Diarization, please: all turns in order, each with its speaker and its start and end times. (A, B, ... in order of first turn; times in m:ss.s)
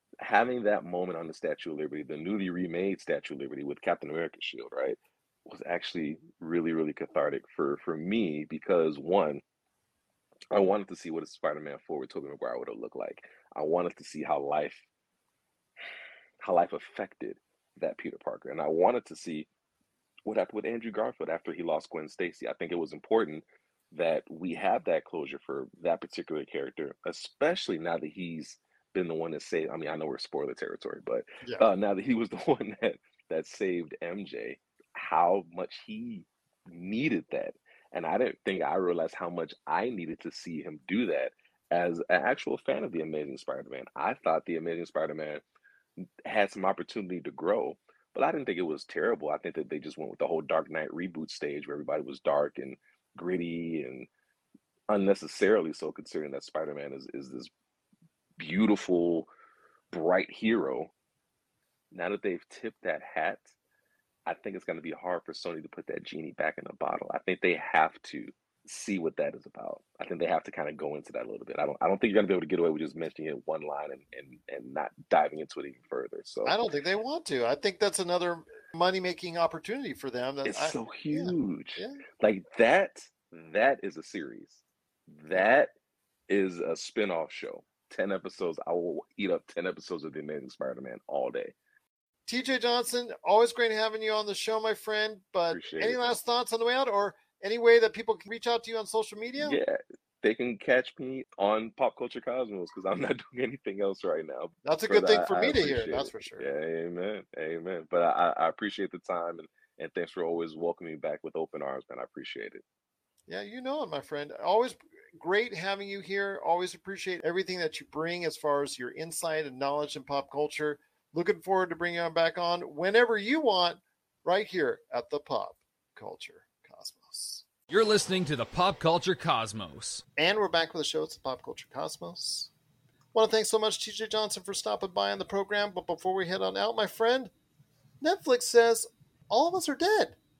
0:00.2-0:09.4 A
0:10.5-0:14.8 A
0:16.4-0:19.5 A
0:20.2-0:45.4 A
0:46.2-0:54.1 A
0:54.9-0:57.5 A
0:58.4-0:59.3 A
0:59.9-1:00.9 A
1:01.9-1:03.5 A
1:04.2-1:16.6 A
1:16.4-1:22.0 B
1:20.4-1:25.7 A
1:26.3-1:31.5 A
1:32.3-1:39.6 B
1:35.5-1:36.1 A
1:39.4-1:52.6 A
1:44.6-1:46.4 B
1:53.3-2:07.4 B
2:07.7-2:10.0 C
2:10.2-2:12.5 B
2:13.1-2:17.3 B
2:18.0-2:20.2 B